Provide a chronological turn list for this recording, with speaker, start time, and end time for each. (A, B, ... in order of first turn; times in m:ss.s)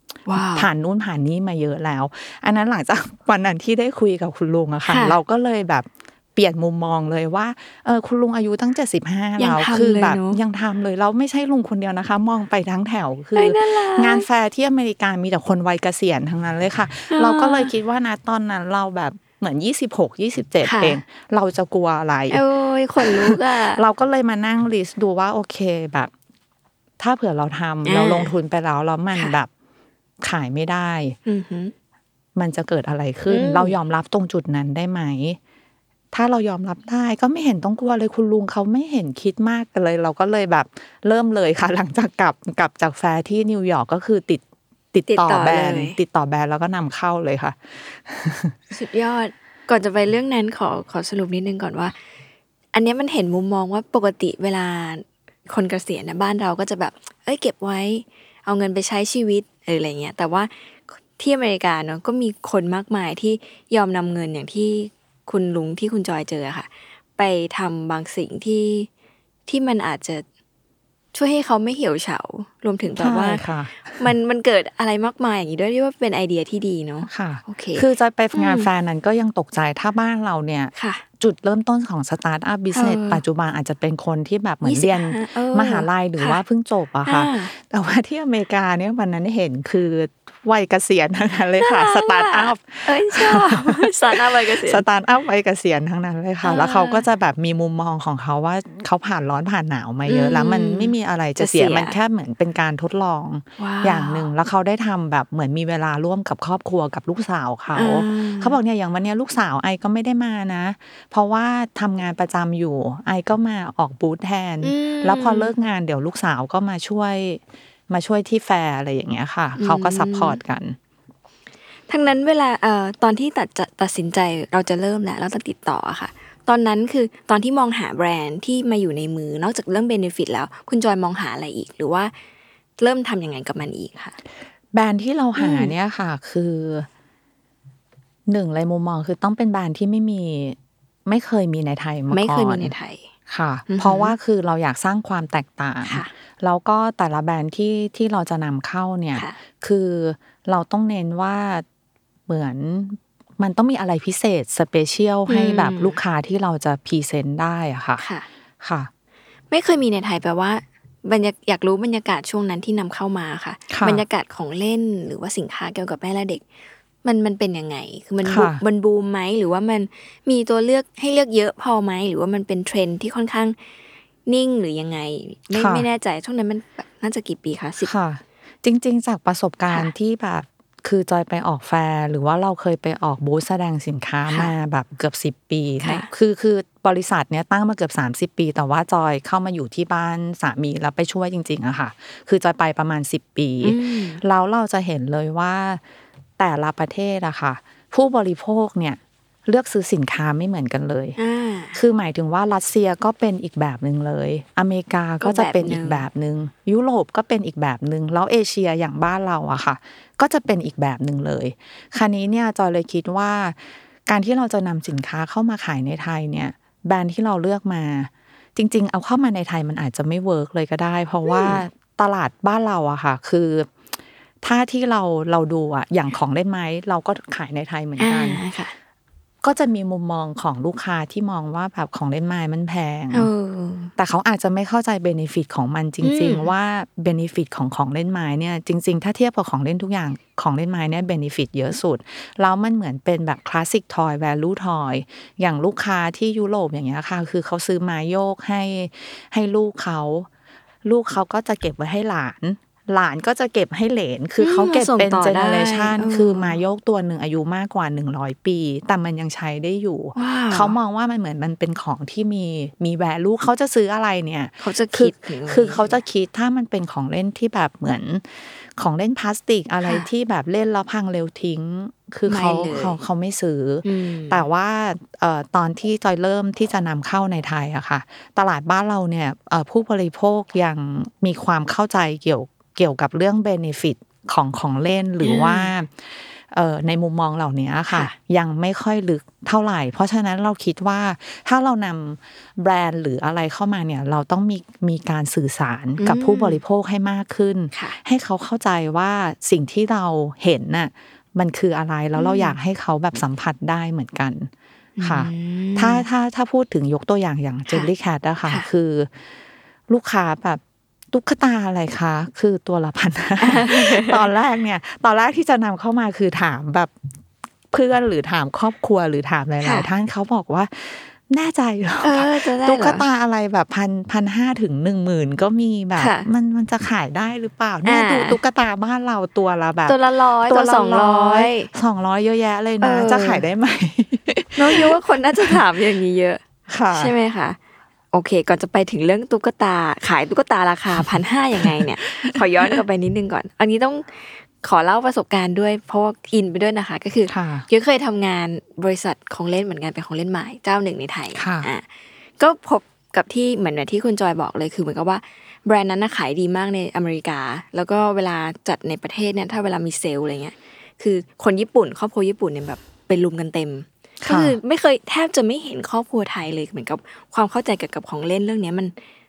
0:00.3-0:00.7 A
0:00.4-0:22.4 B
0:04.9-0:05.2 A
0:09.4-0:10.4 A
0:13.4-0:14.3 A
0:17.1-0:17.7 A
0:20.6-0:21.0 A
0:22.3-0:23.8 A
0:23.0-0:26.1 B
0:27.0-0:29.5 B
0:27.8-0:28.3 A
0:30.2-0:31.2 B
0:31.3-0:31.7 A
0:32.4-0:35.4 B
0:33.3-0:33.8 A
0:36.1-0:48.6 B
0:45.1-0:46.0 A
0:48.7-0:52.0 A
0:52.7-1:08.9 A
1:09.5-1:10.3 A
1:11.1-1:18.7 A
1:13.0-1:14.1 B
1:17.1-2:00.8 B
1:20.8-1:21.0 A
1:22.7-1:23.2 A
1:24.6-1:26.4 A
1:27.0-1:27.5 A
1:31.6-1:34.8 A
1:36.4-1:37.0 A
1:40.1-1:42.0 A
1:43.6-1:44.3 A
1:47.7-1:48.6 A
1:54.6-1:55.5 A
1:59.6-2:00.4 A
2:01.9-2:12.1 A
2:12.8-2:14.2 A
2:14.7-2:16.9 B
2:15.4-2:15.7 A
2:18.3-2:22.7 B
2:22.1-2:23.1 A
2:23.3-2:31.6 B
2:23.7-2:24.2 A
2:25.8-2:26.1 A
2:29.1-2:29.4 A
2:32.3-2:38.0 B
2:35.3-2:36.0 A
2:38.0-2:38.3 A
2:38.6-2:38.9 B
2:39.5-2:46.4 A
2:43.7-2:44.0 B
2:47.0-2:53.6 A
2:48.2-2:48.6 B
2:54.3-2:57.9 A
2:55.5-2:55.8 B
2:57.8-3:15.8 B
3:13.6-3:14.2 A
3:16.4-3:21.2 B
3:21.2-3:21.8 A
3:21.7-3:43.7 B
3:25.2-3:26.0 A
3:41.3-3:41.6 A
3:44.4-3:48.4 B
3:48.0-3:48.8 A
3:49.4-3:53.3 B
3:53.1-3:53.9 A
3:54.0-4:10.3 B
3:56.0-3:56.5 A
4:10.8-5:04.5 B
4:14.4-4:16.6 A
4:20.2-4:20.8 A
4:24.6-4:26.0 A
4:29.8-4:30.1 A
4:32.3-4:33.0 A
4:33.8-4:34.4 A
4:45.2-4:45.7 A
4:56.0-4:56.6 A
4:57.7-4:58.0 A
5:02.2-5:02.6 A
5:05.0-5:06.0 A
5:05.0-5:09.1 B
5:09.9-5:10.6 B
5:11.1-5:16.9 B
5:13.4-5:14.2 A
5:17.7-5:35.6 B
5:19.6-5:19.9 A
5:22.0-5:23.1 A
5:26.0-5:26.3 A
5:27.8-5:28.4 A
5:29.9-5:31.7 A
5:32.8-5:33.4 A
5:34.6-5:36.4 A
5:36.7-5:37.1 B
5:36.9-5:37.6 A
5:38.1-5:51.9 A
5:41.6-5:42.8 B
5:47.3-5:47.7 B
5:51.4-5:51.7 B
5:52.4-6:09.0 A
6:04.2-6:04.6 B